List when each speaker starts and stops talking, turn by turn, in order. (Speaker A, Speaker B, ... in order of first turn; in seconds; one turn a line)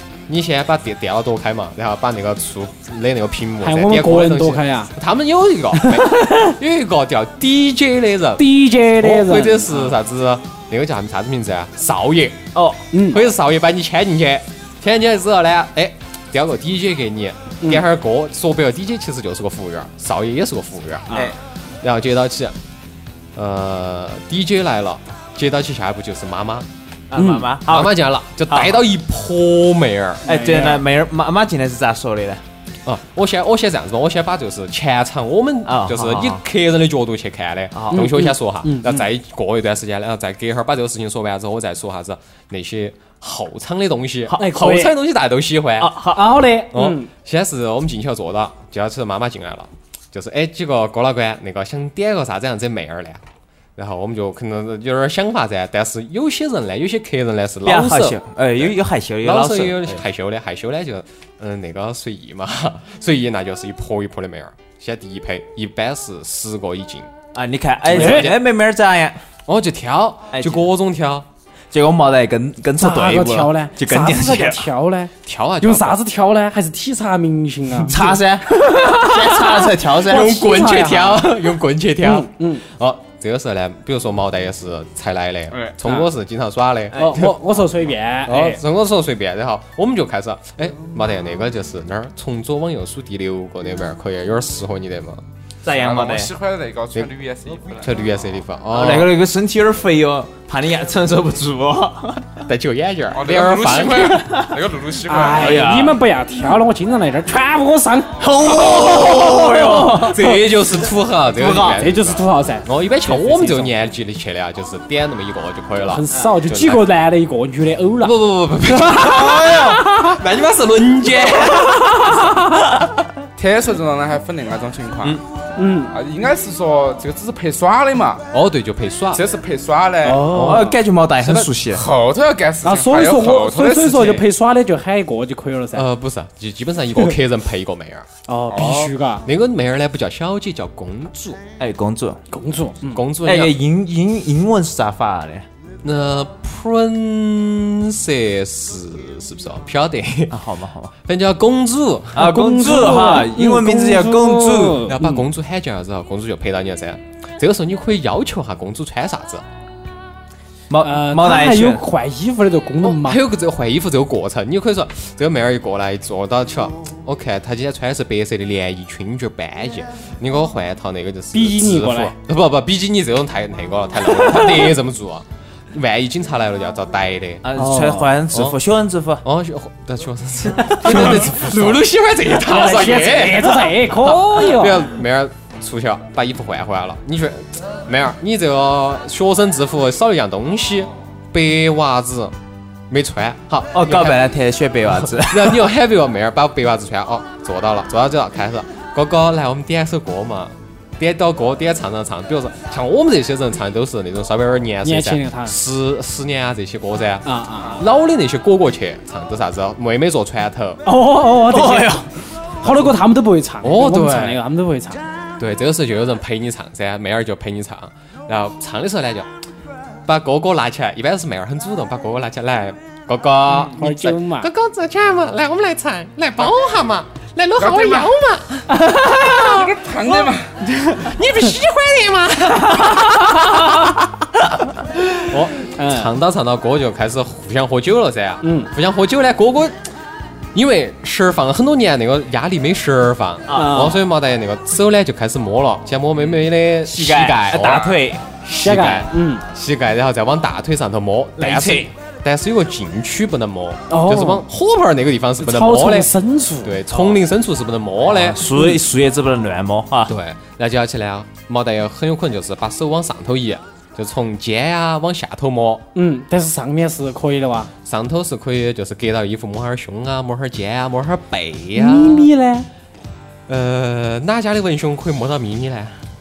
Speaker A: 0.3-12.4
Speaker B: 3.6-4.9
Speaker B: 5.8-6.5
Speaker B: 8.4-9.9
Speaker C: 12.5-12.8
Speaker B: 12.9-13.2
Speaker A: 13.1-21.3
Speaker B: 21.1-21.3
Speaker A: 21.8-22.6
Speaker A: 23.3-26.7
Speaker C: 27.1-28.8
Speaker B: 27.1-27.5
Speaker A: 27.6-30.2
Speaker B: 30.2-30.8
Speaker C: 30.2-32.4
Speaker A: 32.8-46.0
Speaker C: 35.6-36.4
Speaker C: 37.7-38.1
Speaker B: 37.9-39.1
Speaker B: 44.3-45.0
Speaker C: 45.8-46.3
Speaker B: 46.1-47.1
Speaker A: 46.7-53.2
Speaker A: 53.8-67.1
Speaker C: 57.6-60.0
Speaker C: 67.3-69.2
Speaker A: 67.9-68.4
Speaker B: 67.9-68.3
Speaker A: 69.5-71.3
Speaker C: 70.3-70.7
Speaker C: 71.7-74.7
Speaker B: 72.8-81.3
Speaker A: 75.2-76.0
Speaker C: 77.9-80.4
Speaker A: 80.0-87.4
Speaker B: 82.0-82.6
Speaker B: 85.8-86.1
Speaker C: 86.9-87.3
Speaker B: 86.9-88.6
Speaker A: 88.2-95.2
Speaker C: 95.6-96.3
Speaker D: 95.7-98.1
Speaker A: 97.8-99.1
Speaker C: 98.7-102.4
Speaker A: 102.5-104.4
Speaker D: 103.1-105.6
Speaker C: 104.2-104.5
Speaker B: 105.1-110.5
Speaker C: 105.3-106.0
Speaker C: 108.2-110.7
Speaker A: 110.0-116.8
Speaker C: 111.3-111.8
Speaker B: 111.8-113.7
Speaker B: 115.8-118.2
Speaker A: 118.0-122.3
Speaker B: 118.7-120.2
Speaker B: 121.4-122.4
Speaker D: 123.4-125.2
Speaker B: 125.6-125.9
Speaker D: 125.9-128.2
Speaker A: 128.3-129.2
Speaker D: 129.1-130.3
Speaker B: 130.0-130.8
Speaker A: 130.2-130.7
Speaker C: 130.3-131.8
Speaker D: 131.2-134.2
Speaker B: 132.6-135.9
Speaker A: 135.7-141.4
Speaker B: 138.3-139.3
Speaker D: 138.5-138.8
Speaker C: 141.6-142.2
Speaker B: 142.3-143.0
Speaker A: 142.9-143.5
Speaker C: 143.2-145.4
Speaker A: 145.8-150.4
Speaker C: 150.3-150.9
Speaker A: 151.0-153.0
Speaker C: 152.1-154.8
Speaker B: 152.2-155.3
Speaker A: 154.8-159.4
Speaker C: 160.7-161.8
Speaker B: 160.8-163.2
Speaker A: 162.8-177.4
Speaker B: 171.3-172.1
Speaker B: 174.1-174.7
Speaker C: 177.4-179.2
Speaker B: 177.5-178.1
Speaker A: 178.3-178.6
Speaker A: 179.2-192.3
Speaker B: 180.6-181.8
Speaker C: 180.8-181.2
Speaker B: 182.4-184.9
Speaker A: 192.9-194.2
Speaker C: 193.7-195.7
Speaker A: 195.2-207.2
Speaker B: 204.8-205.6
Speaker B: 207.2-207.8
Speaker A: 207.8-210.8
Speaker B: 210.8-212.1
Speaker C: 211.5-212.1
Speaker B: 212.6-215.0
Speaker A: 212.6-212.9
Speaker A: 213.6-214.4
Speaker A: 215.4-219.3
Speaker A: 220.0-234.0
Speaker B: 223.5-224.5
Speaker D: 227.6-228.1
Speaker B: 228.7-229.6
Speaker D: 229.4-230.5
Speaker B: 232.7-233.9
Speaker A: 235.2-239.8
Speaker B: 235.6-236.1
Speaker B: 238.4-238.7
Speaker A: 240.5-256.1
Speaker C: 243.5-243.8
Speaker B: 243.5-244.0
Speaker C: 246.8-248.3
Speaker B: 248.4-249.4
Speaker C: 251.4-251.9
Speaker B: 253.9-254.4
Speaker B: 255.4-256.8
Speaker A: 256.6-258.4
Speaker C: 256.9-257.2
Speaker C: 258.0-260.1
Speaker A: 260.1-265.8
Speaker B: 265.9-267.7
Speaker A: 267.8-272.3
Speaker B: 271.8-272.7
Speaker A: 273.5-276.0